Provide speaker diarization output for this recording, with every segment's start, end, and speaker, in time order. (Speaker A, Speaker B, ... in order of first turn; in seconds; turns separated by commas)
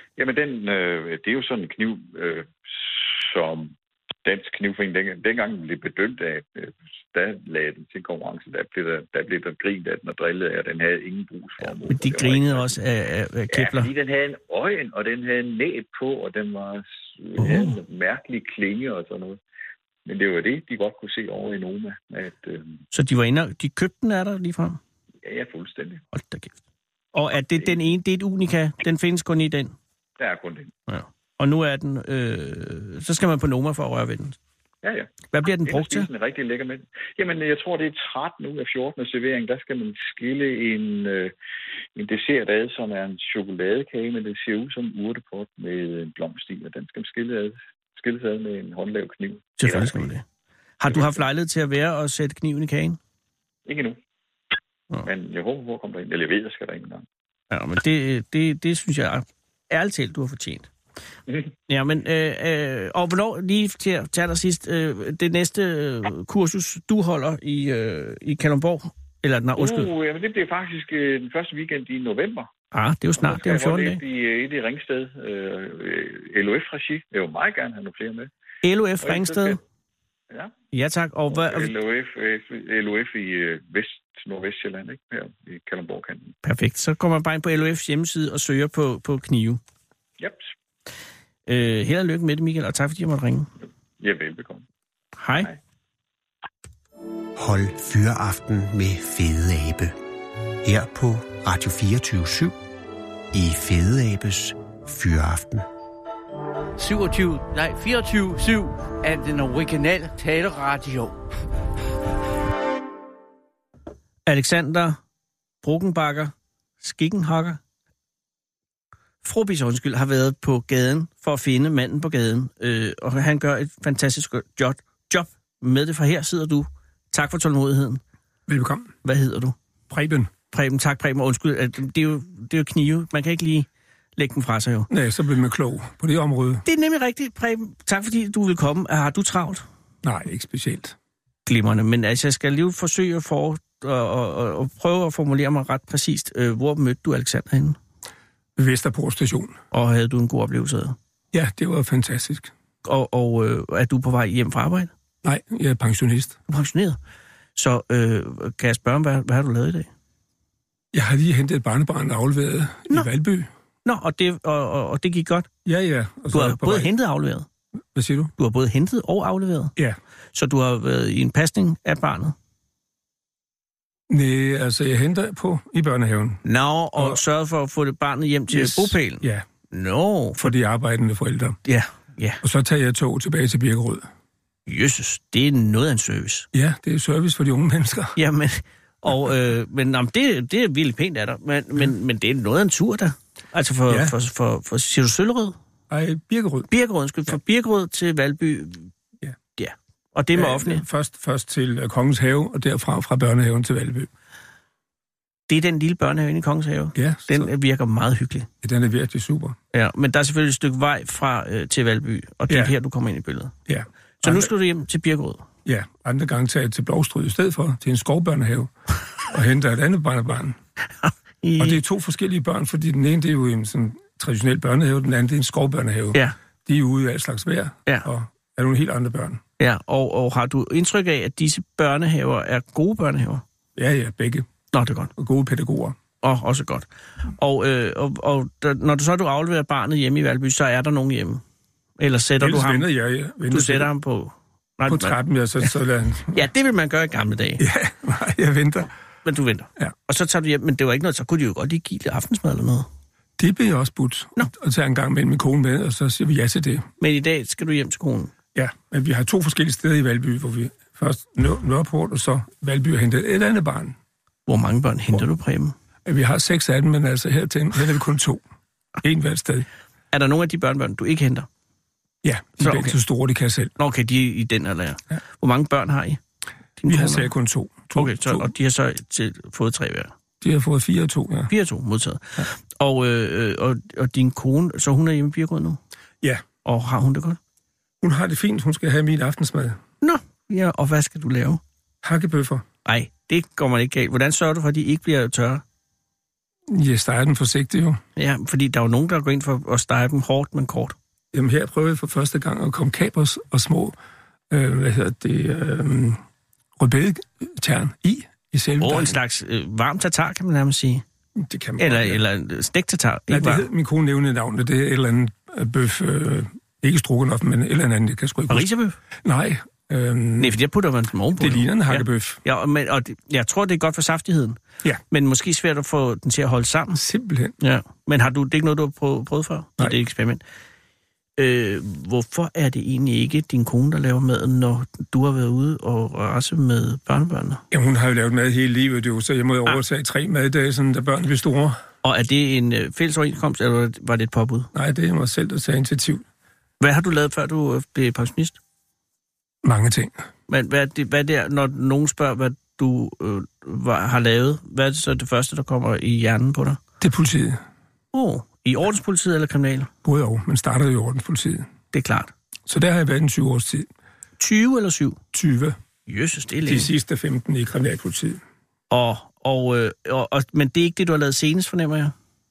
Speaker A: 0.2-12.8, Speaker B: 11.9-13.9, Speaker A: 13.5-19.4, Speaker B: 17.4-17.8, Speaker A: 20.1-22.8, Speaker B: 22.9-24.8, Speaker A: 25.2-26.0, Speaker B: 26.1-26.6, Speaker B: 27.1-29.8, Speaker A: 30.2-30.8, Speaker B: 30.9-34.4, Speaker A: 34.8-41.3, Speaker B: 35.3-36.1, Speaker A: 42.0-50.1, Speaker B: 49.6-50.2, Speaker B: 50.8-53.0, Speaker A: 50.9-51.2, Speaker A: 53.7-54.0, Speaker A: 55.0-57.0, Speaker B: 57.5-60.7, Speaker A: 61.3-61.5, Speaker B: 61.7-69.9, Speaker A: 69.6-72.5, Speaker B: 72.7-74.0, Speaker A: 73.2-78.3, Speaker B: 78.6-79.6, Speaker A: 79.0-79.6, Speaker B: 80.7-81.7, Speaker A: 81.3-86.3, Speaker B: 86.4-89.6, Speaker A: 90.2-90.5, Speaker B: 91.5-93.5, Speaker A: 94.0-94.6, Speaker B: 95.2-95.5, Speaker C: 97.4-100.0, Speaker C: 100.6-102.6, Speaker C: 103.3-105.7, Speaker D: 106.8-111.2, Speaker B: 114.3-115.0, Speaker B: 115.6-117.6, Speaker B: 119.2-128.0, Speaker E: 128.5-128.9, Speaker B: 129.0-129.6, Speaker E: 129.9-130.3, Speaker B: 130.5-134.9, Speaker E: 134.9-136.6, Speaker B: 136.6-139.6, Speaker E: 140.0-140.9, Speaker B: 141.5-147.8, Speaker E: 148.6-149.6, Speaker B: 149.7-151.0, Speaker E: 151.3-152.5, Speaker B: 152.8-154.9, Speaker E: 155.2-156.4, Speaker B: 156.5-157.0, Speaker B: 157.6-159.9, Speaker E: 160.9-163.5, Speaker B: 163.8-165.5, Speaker E: 165.7-166.9, Speaker B: 166.3-167.5, Speaker E: 167.9-168.3, Speaker B: 168.4-169.7, Speaker B: 170.3-172.3, Speaker E: 174.1-176.4, Speaker B: 176.4-180.5, Speaker E: 176.9-177.2, Speaker E: 178.5-179.4, Speaker E: 180.4-181.6, Speaker B: 181.6-182.4, Speaker E: 182.4-184.1, Speaker B: 184.7-186.5, Speaker E: 186.5-188.2, Speaker B: 188.2-195.6, Speaker E: 193.9-194.1, Speaker E: 195.9-196.7, Speaker B: 196.7-198.9, Speaker B: 199.6-200.8, Speaker E: 200.3-204.1, Speaker B: 205.5-208.5, Speaker E: 206.9-207.5, Speaker E: 208.6-209.6, Speaker B: 209.7-213.6, Speaker E: 212.5-212.7, Speaker E: 213.7-214.5, Speaker B: 214.2-215.5, Speaker E: 215.7-218.7, Speaker E: 219.3-220.6, Speaker B: 221.0-221.8, Speaker E: 221.6-229.4, Speaker B: 229.6-233.4, Speaker E: 233.8-234.5, Speaker B: 234.7-235.1, Speaker E: 235.2-236.0, Speaker B: 236.2-241.4, Speaker B: 242.0-242.9, Speaker E: 242.4-243.9, Speaker B: 243.5-245.7, Speaker E: 244.8-246.4, Speaker B: 246.3-247.6, Speaker E: 247.6-248.9, Speaker B: 249.2-252.9, Speaker E: 253.4-256.9, Speaker B: 257.0-258.3, Speaker E: 258.5-263.9, Speaker B: 264.5-265.8, Speaker E: 266.1-268.4, Speaker E: 269.0-269.7, Speaker B: 270.1-271.5, Speaker E: 272.2-273.7, Speaker B: 272.6-273.0, Speaker B: 273.8-276.2, Speaker B: 276.8-277.3, Speaker E: 276.9-278.5, Speaker B: 277.9-280.1, Speaker E: 280.4-281.5, Speaker B: 281.5-285.8, Speaker B: 286.6-287.4, Speaker E: 288.0-289.8, Speaker B: 290.0-291.6, Speaker E: 292.0-292.7, Speaker B: 292.9-295.6, Speaker E: 296.7-298.0, Speaker B: 298.2-300.9, Speaker E: 301.3-303.9, Speaker E: 304.5-306.2, Speaker E: 306.8-309.2, Speaker B: 308.8-311.0, Speaker E: 311.4-312.2, Speaker B: 311.8-313.7, Speaker E: 313.3-318.7, Speaker B: 318.5-319.0, Speaker E: 319.2-320.5, Speaker B: 320.4-327.0, Speaker E: 321.4-322.4, Speaker E: 326.9-327.6, Speaker B: 327.6-330.4, Speaker B: 331.4-337.6, Speaker E: 337.7-341.8, Speaker B: 342.0-344.7, Speaker E: 344.7-346.2, Speaker B: 346.8-348.6, Speaker E: 349.6-350.2, Speaker B: 350.5-356.8, Speaker E: 357.0-357.6, Speaker B: 358.1-359.9, Speaker E: 360.1-361.7, Speaker B: 361.9-362.3, Speaker E: 362.7-363.9, Speaker B: 364.4-365.2, Speaker E: 365.3-365.8, Speaker B: 366.1-366.9, Speaker E: 366.7-368.4, Speaker B: 368.9-372.1